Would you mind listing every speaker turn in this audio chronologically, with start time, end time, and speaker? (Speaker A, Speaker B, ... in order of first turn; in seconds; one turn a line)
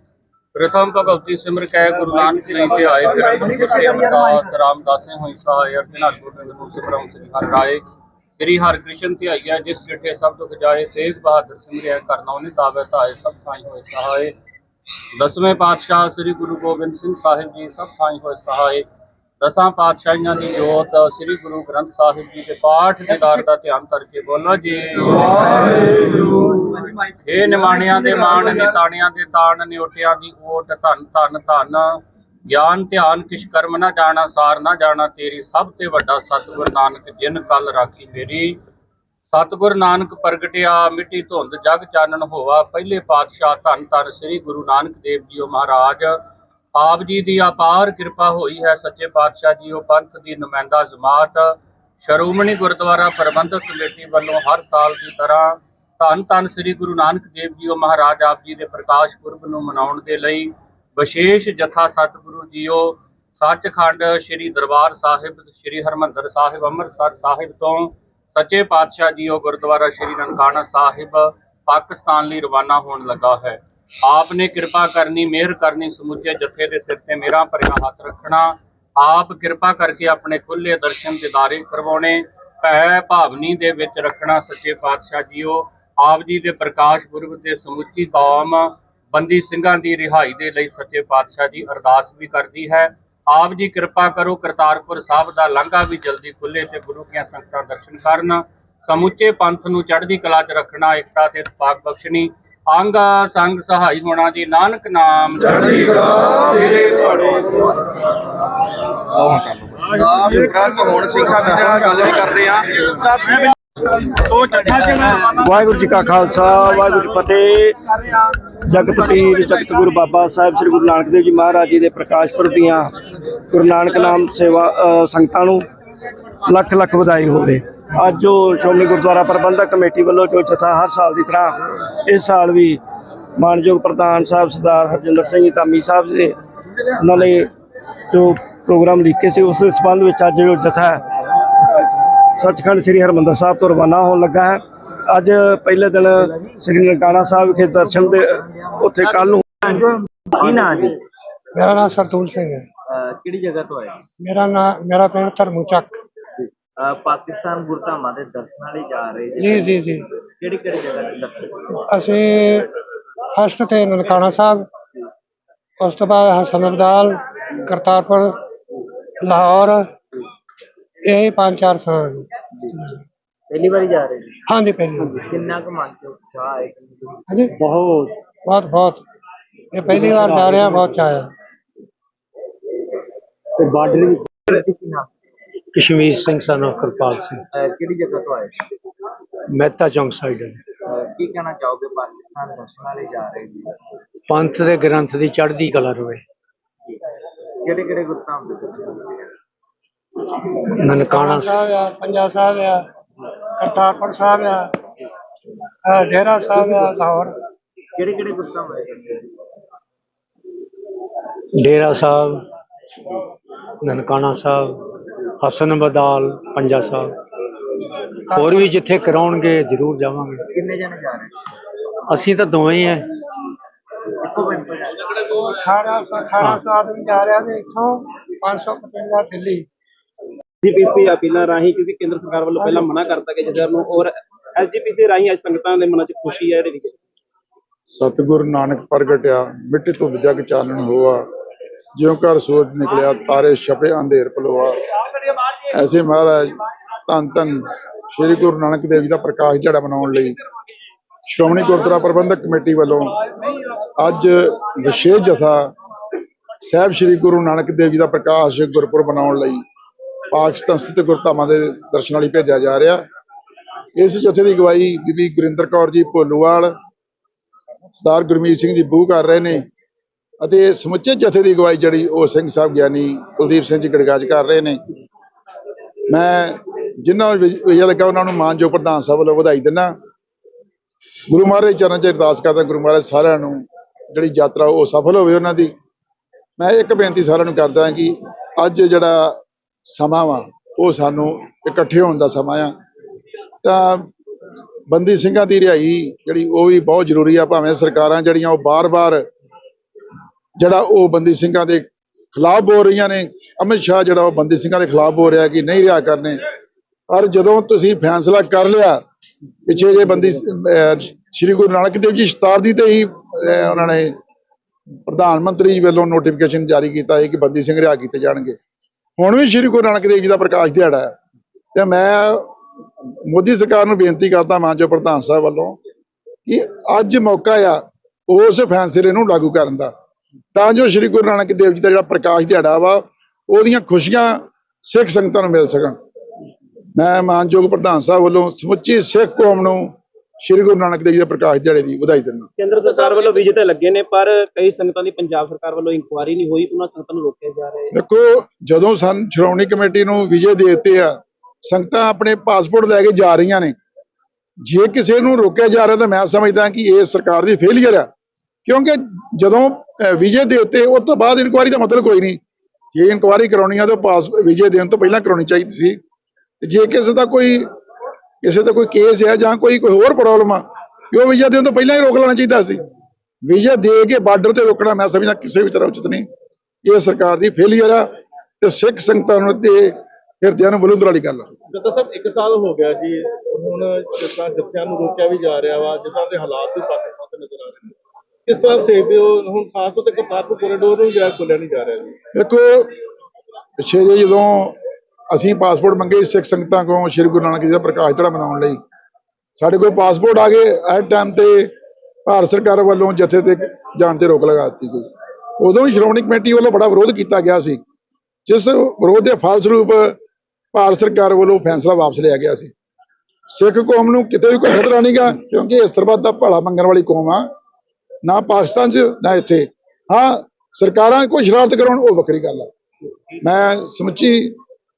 Speaker A: 0.6-7.8
Speaker A: 8.4-14.3
Speaker A: 15.2-18.9
Speaker A: 19.4-26.6
Speaker A: 27.2-38.6
Speaker A: 39.3-46.2
Speaker A: 46.8-107.5
Speaker B: 110.3-112.4
Speaker B: 115.1-117.8
Speaker B: 118.7-122.9
Speaker B: 123.5-125.7
Speaker B: 126.5-132.8
Speaker B: 133.4-136.4
Speaker B: 137.0-137.5
Speaker B: 138.1-141.0
Speaker B: 142.4-149.6
Speaker C: 147.8-148.8
Speaker C: 149.6-151.0
Speaker D: 151.6-152.7
Speaker C: 152.9-154.0
Speaker D: 154.2-155.9
Speaker C: 156.4-159.9
Speaker D: 159.4-160.0
Speaker C: 160.4-161.6
Speaker D: 161.9-162.7
Speaker D: 163.4-164.7
Speaker D: 165.8-168.3
Speaker D: 169.2-169.8
Speaker D: 171.1-173.0
Speaker C: 173.5-174.4
Speaker D: 174.5-175.2
Speaker C: 175.2-177.2
Speaker D: 177.3-177.6
Speaker E: 177.5-178.2
Speaker D: 178.5-179.0
Speaker D: 179.7-181.3
Speaker E: 179.9-181.0
Speaker E: 183.6-184.5
Speaker C: 184.5-185.1
Speaker E: 185.7-187.4
Speaker C: 187.5-188.6
Speaker E: 189.5-190.6
Speaker C: 190.9-193.7
Speaker E: 194.3-196.2
Speaker C: 197.6-199.1
Speaker E: 200.7-201.6
Speaker D: 201.0-202.8
Speaker D: 203.6-204.7
Speaker D: 205.8-207.3
Speaker C: 208.0-209.3
Speaker E: 211.6-212.4
Speaker E: 213.8-214.8
Speaker E: 215.4-217.1
Speaker D: 218.3-218.7
Speaker E: 218.3-220.4
Speaker C: 220.5-221.4
Speaker E: 222.1-223.1
Speaker C: 224.2-225.1
Speaker D: 225.3-229.7
Speaker F: 230.6-237.0
Speaker G: 238.0-241.2
Speaker G: 242.0-244.7
Speaker G: 245.7-246.6
Speaker G: 247.1-247.6
Speaker G: 248.1-250.3
Speaker G: 251.3-253.2
Speaker G: 254.0-255.7
Speaker G: 256.6-259.6
Speaker G: 260.3-263.0
Speaker G: 264.0-266.7
Speaker G: 268.0-269.6
Speaker G: 270.4-274.8
Speaker G: 276.1-279.9
Speaker G: 281.3-285.7
Speaker G: 286.6-289.4
Speaker G: 289.9-292.7
Speaker G: 293.6-294.1
Speaker G: 294.9-299.2
Speaker G: 300.6-306.4
Speaker G: 307.1-309.0
Speaker G: 309.7-314.1
Speaker G: 315.1-318.6
Speaker G: 319.2-321.1
Speaker G: 321.8-322.5
Speaker G: 323.3-325.8
Speaker G: 326.5-329.9
Speaker G: 330.6-336.0
Speaker G: 337.0-342.5
Speaker F: 342.6-347.9
Speaker G: 347.9-351.1
Speaker G: 351.7-353.8
Speaker G: 354.6-358.1
Speaker G: 358.7-362.4
Speaker G: 362.9-366.0
Speaker G: 366.6-367.7
Speaker G: 368.4-372.8
Speaker G: 373.5-376.2
Speaker G: 376.9-378.1
Speaker G: 378.6-381.6
Speaker H: 381.7-387.9
Speaker H: 388.5-392.1
Speaker G: 392.4-392.9
Speaker G: 393.8-394.8
Speaker G: 395.3-398.8
Speaker G: 399.6-401.7
Speaker G: 402.3-405.1
Speaker G: 405.6-407.8
Speaker G: 408.5-410.2
Speaker G: 410.7-412.7
Speaker G: 413.5-417.4
Speaker G: 418.2-422.7
Speaker G: 423.4-424.6